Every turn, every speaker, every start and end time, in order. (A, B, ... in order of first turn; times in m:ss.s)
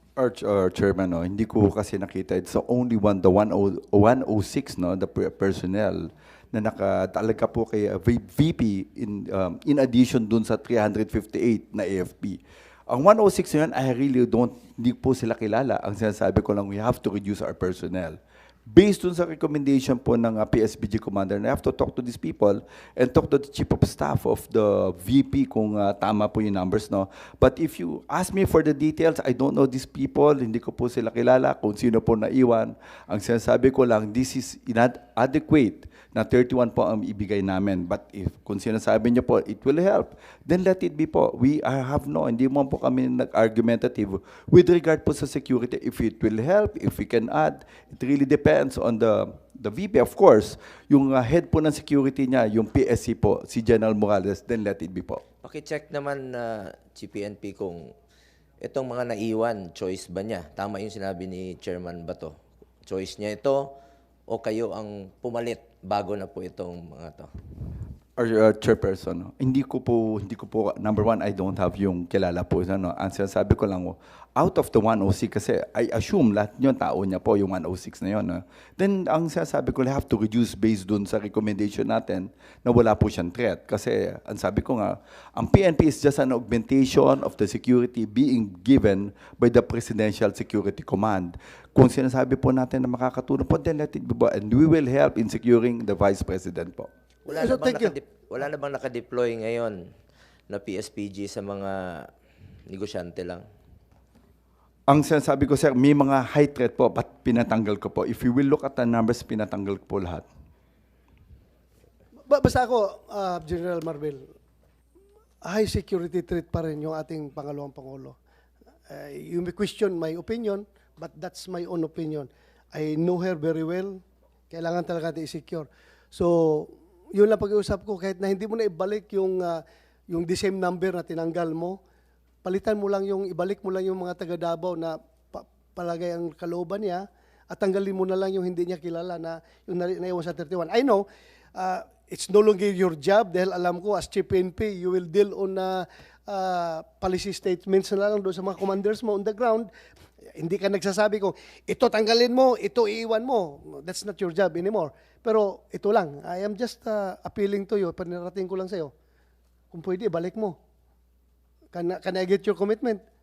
0:00.2-0:18.2 A
0:18.7-0:55.2 A
0:55.4-0:57.9 B
0:58.6-1:02.3 B
1:02.8-1:03.7 B
1:04.3-1:07.3 B
1:08.2-1:36.9 A
1:37.2-1:39.8 B
1:37.3-1:38.0 C
1:40.5-1:42.1 B
1:42.7-1:43.4 B
1:44.9-1:50.2 A
1:52.3-1:54.3 C
1:55.4-1:58.2 C
1:58.9-2:11.8 C
2:12.4-2:21.0 C
2:21.5-2:29.7 C
2:30.3-2:38.9 C
2:39.7-2:40.6 C
2:41.7-2:43.0 C